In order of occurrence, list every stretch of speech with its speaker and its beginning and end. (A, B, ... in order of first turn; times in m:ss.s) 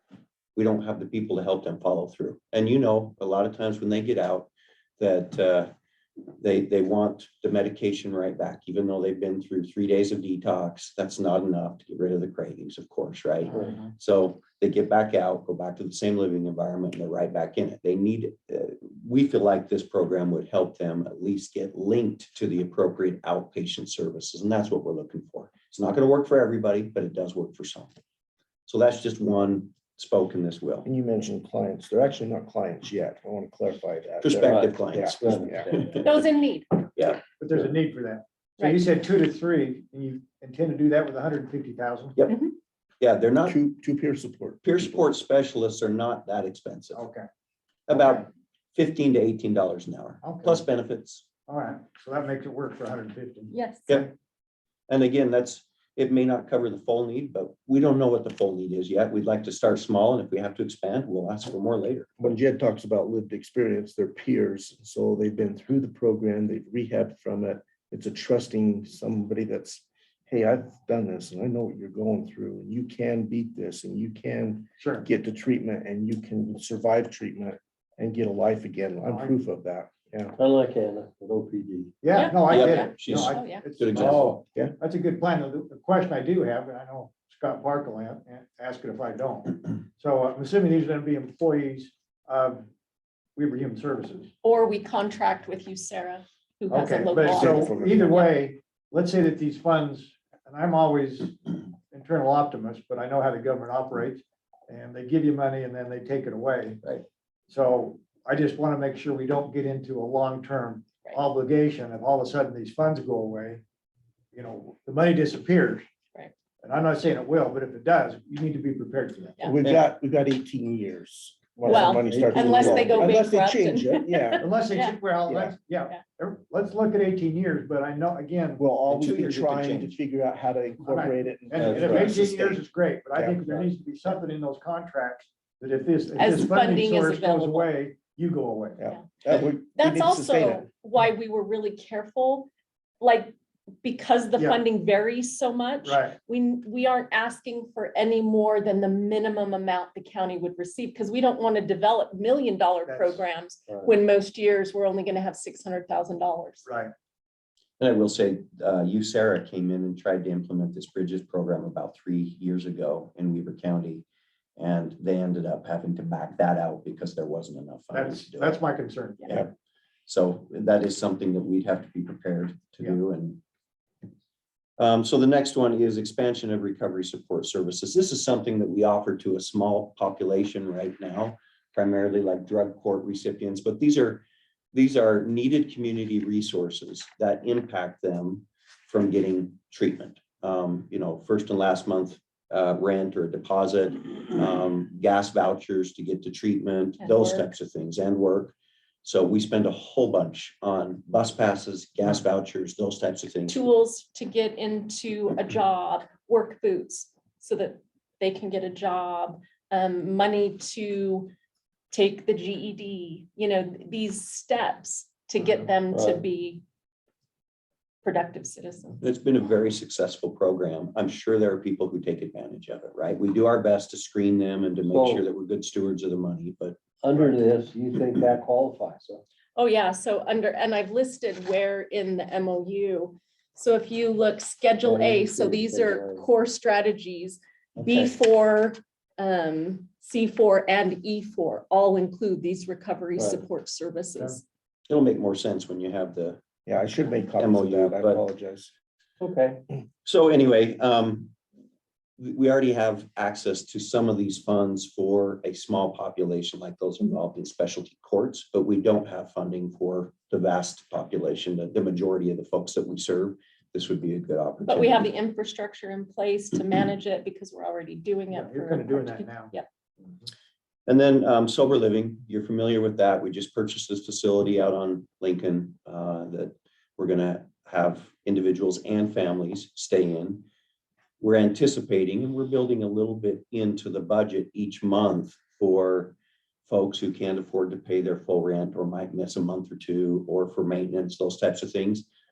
0:00.6-0:05.7 A
0:06.4-0:27.9 A
0:13.5-0:13.8 B
0:28.7-0:30.8 A
0:30.8-0:35.7 C
0:34.2-0:36.1 A
0:34.4-0:36.0 B
0:36.0-0:36.8 D
0:37.0-0:37.2 A
0:37.4-0:42.2 E
0:42.3-0:42.5 D
0:43.0-0:43.6 A
0:43.4-0:45.0 C
0:44.6-0:47.0 A
0:46.9-0:47.3 E
0:47.9-0:51.2 A
0:47.9-0:48.2 E
0:50.2-0:50.6 E
0:51.5-0:54.1 E
0:53.5-0:53.9 D
0:54.9-1:02.1 A
1:02.2-1:20.4 C
1:14.8-1:15.0 E
1:19.0-1:19.4 E
1:20.4-1:21.9 B
1:22.0-1:32.7 E
1:22.1-1:23.6 D
1:22.4-1:24.4 A
1:23.9-1:24.7 C
1:33.4-1:34.3 E
1:34.4-1:38.3 D
1:36.7-1:46.8 E
1:37.2-1:38.2 C
1:47.5-1:53.6 E
1:54.3-1:55.8 E
1:56.6-1:59.6 E
1:59.4-2:04.4 C
1:59.6-1:59.9 A
2:01.6-2:05.0 D
2:01.6-2:03.1 B
2:04.4-2:08.6 E
2:05.3-2:05.6 C
2:08.6-2:13.5 C
2:08.9-2:10.0 A
2:10.8-2:18.8 E
2:11.6-2:12.2 B
2:16.2-2:17.7 D
2:18.8-2:20.7 C
2:18.9-2:22.5 D
2:23.0-2:36.6 D
2:25.8-2:26.2 E
2:32.9-2:33.2 E
2:36.7-2:36.9 E
2:37.8-2:44.0 A
2:44.6-2:48.6 A
2:47.9-2:49.5 E
2:50.1-2:53.4 A
2:54.8-3:23.7 A
3:17.0-3:17.5 D
3:23.5-3:31.3 D
3:31.9-3:36.6 D
3:35.9-3:36.2 B
3:38.0-3:39.0 D
3:39.0-3:47.4 A
3:44.9-3:45.2 B
3:47.0-3:49.2 B
3:49.6-4:04.4 D
3:54.8-3:56.3 B
4:03.2-4:03.4 B
4:04.9-4:06.4 A
4:06.7-4:08.7 C
4:07.4-4:08.2 A
4:09.2-4:09.6 B
4:10.0-4:11.3 A
4:12.2-4:25.1 A
4:24.7-4:29.7 D
4:28.3-4:29.5 E
4:30.9-4:40.4 A
4:41.2-4:46.2 A
4:46.7-4:52.1 A